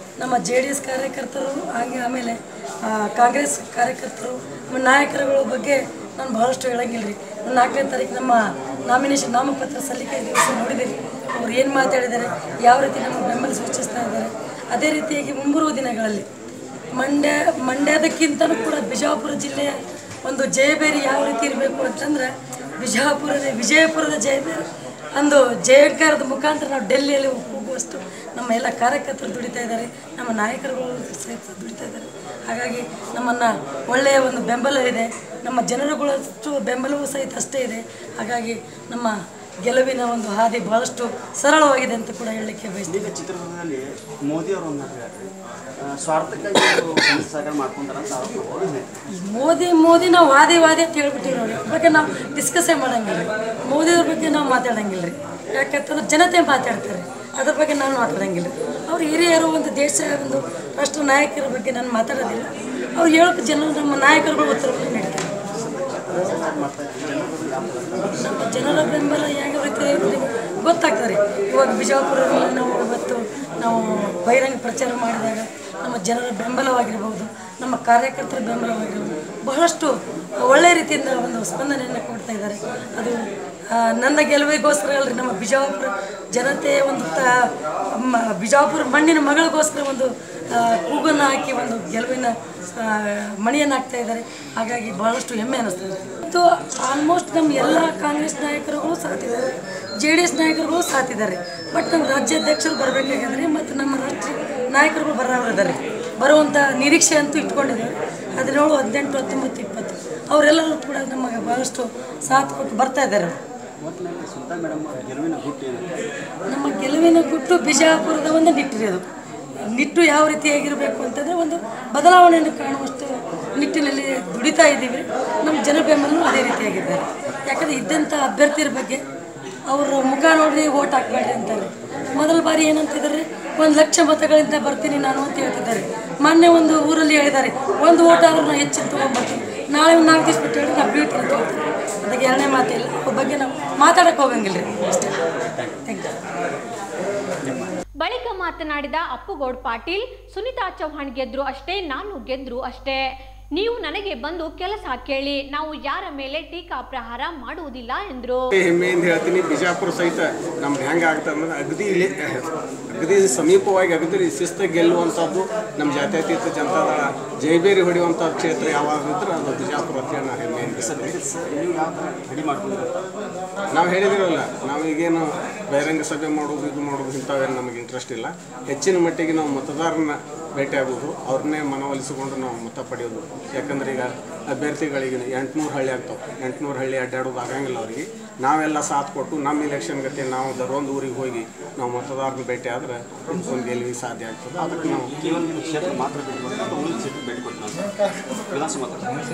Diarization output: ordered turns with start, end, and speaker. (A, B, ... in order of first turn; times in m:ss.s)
0:00.2-0:02.4 A
0:03.0-0:16.2 A
0:17.0-0:24.6 A
0:25.2-0:39.1 A
0:39.6-0:43.1 A
0:42.9-0:45.3 B
0:45.8-0:48.9 B
0:49.2-1:05.3 A
1:05.6-1:08.9 B
1:08.2-1:23.2 A
1:23.7-1:27.3 A
1:28.0-1:53.4 A
1:53.8-1:55.9 B
1:56.5-1:59.0 A
1:59.7-2:09.0 A
2:09.7-2:25.2 A
2:25.8-2:26.2 A
2:27.4-2:27.8 B
2:28.0-2:33.0 C
2:33.6-2:38.5 C
2:38.5-2:51.2 D
2:50.7-2:53.1 B
2:53.7-3:15.2 D
3:14.6-3:18.0 B
3:18.5-3:19.2 B